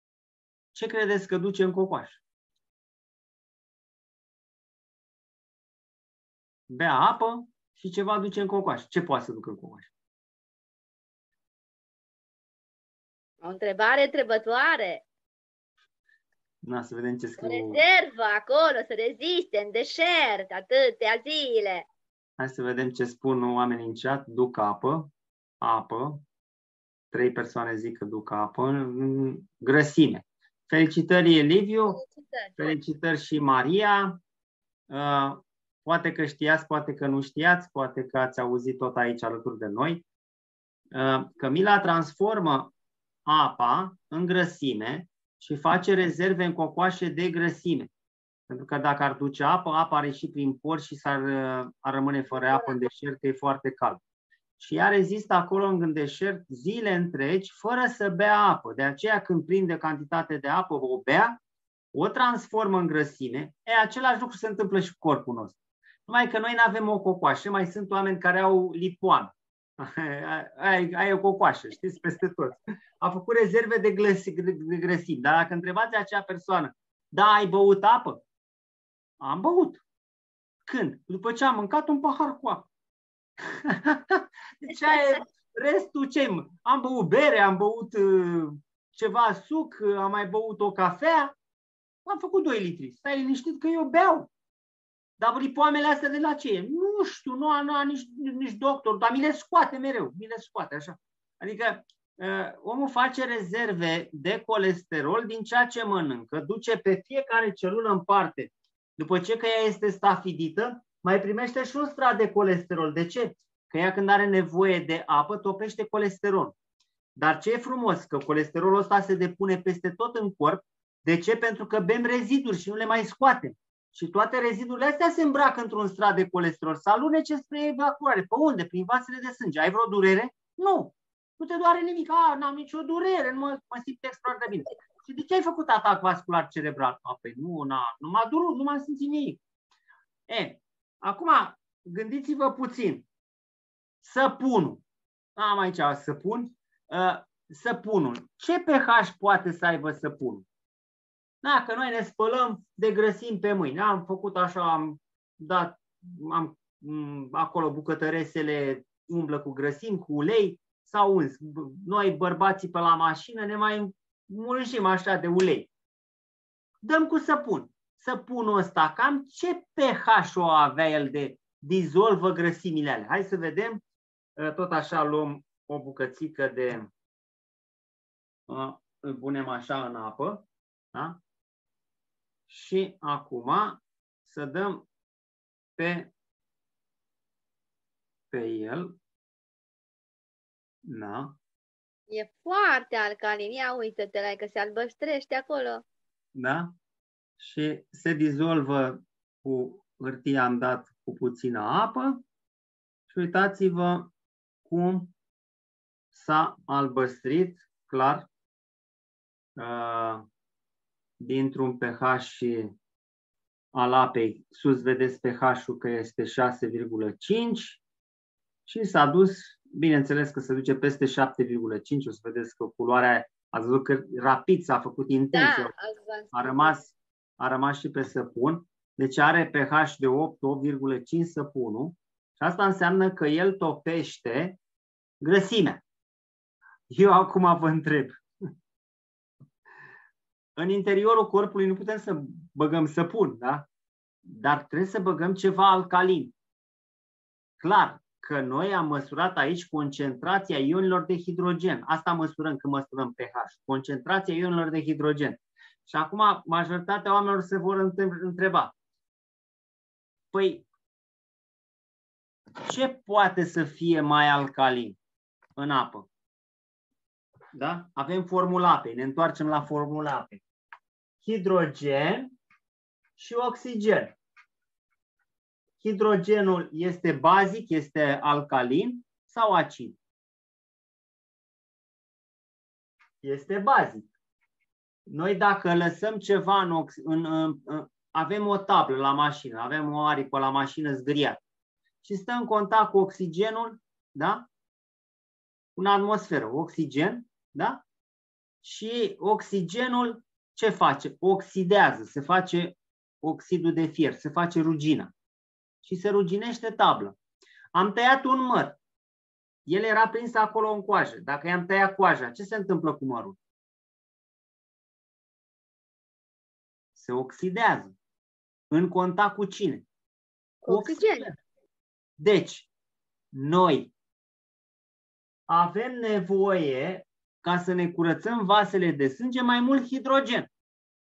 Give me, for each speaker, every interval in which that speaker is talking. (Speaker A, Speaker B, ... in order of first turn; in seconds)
Speaker A: 0.7-2.2, 6.7-9.9, 16.6-17.8, 22.4-26.2, 27.1-32.0, 32.6-34.2, 34.9-40.0, 40.9-42.7, 43.3-47.9, 48.5-54.0, 54.6-61.4, 61.9-78.2, 79.2-79.8, 80.7-82.7, 83.4-91.3, 92.1-94.3, 95.2-116.5, 117.2-139.4, 140.3-143.1, 144.0-144.8, 145.4-150.5, 151.4-165.7, 166.8-173.8, 174.4-176.9, 178.5-181.2, 182.5-184.8, 185.8-186.1, 188.3-188.9, 190.9-191.4, 196.3-196.7, 197.4-202.2, 203.1-204.1, 204.7-205.1, 206.1-208.3, 209.6-210.2, 211.2-212.7, 213.7-217.8, 218.7-225.7, 226.3-234.6, 235.2-235.8, 236.9-238.2, 240.6-243.7, 244.2-246.3, 247.6-258.7, 260.3-260.6, 262.6-265.0, 265.6-266.1, 267.5-270.4, 271.2-272.3, 273.2-274.2, 275.8-280.0, 283.2-284.1, 285.1-291.4, 292.0-294.5, 295.8-297.8, 298.6-305.1, 305.8-307.2, 307.7-308.8, 309.7-313.4, 316.9-317.9, 318.7-319.9, 320.7-321.4, 322.2-322.7, 323.3-323.9, 325.5-330.5
Speaker B: 13.4-15.0, 17.4-21.9, 31.9-32.7, 192.1-195.8, 225.3-226.8, 320.6-321.3